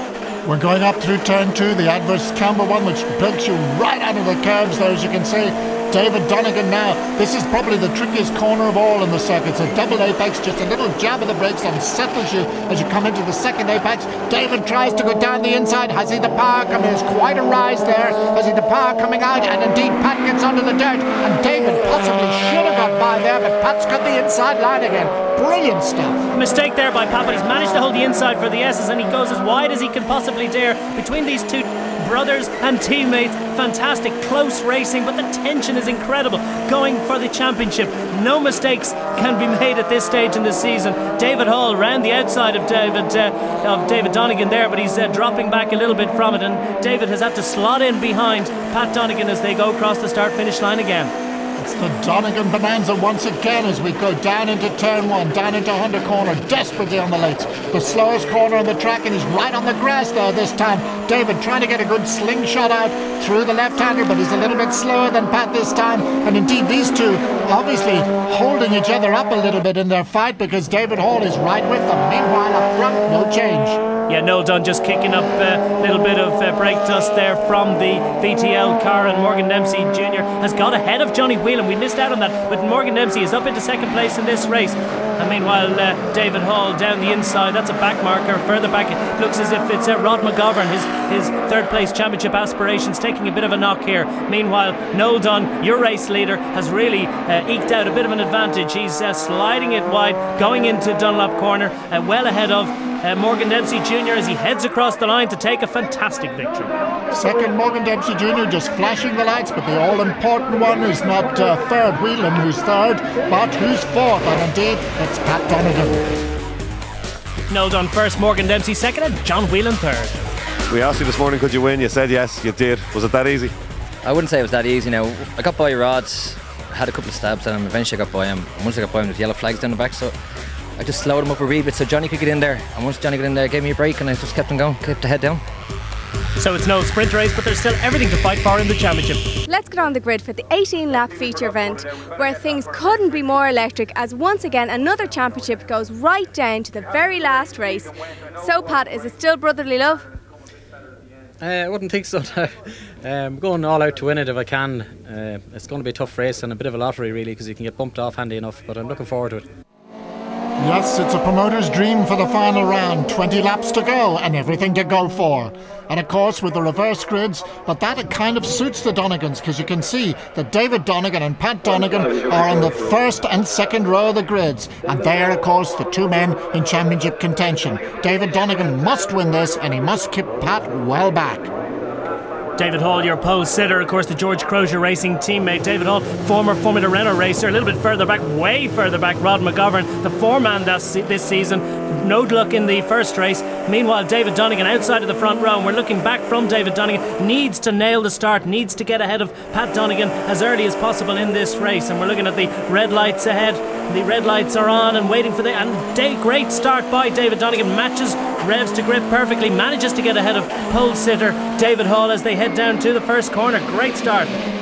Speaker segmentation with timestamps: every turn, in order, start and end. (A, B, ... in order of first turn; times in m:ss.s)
0:00.4-0:26.3 A
0:26.3-0:51.1 B
0:51.6-1:13.8 A
1:14.1-1:46.7 B
1:47.1-1:56.1 A
1:57.5-2:00.2 B
2:00.7-2:03.5 C
2:04.0-2:10.1 D
2:10.8-2:15.4 D
2:16.4-2:19.2 B
2:19.5-2:30.0 E
2:31.4-2:39.5 F
2:40.6-3:01.5 A
3:02.6-3:34.3 B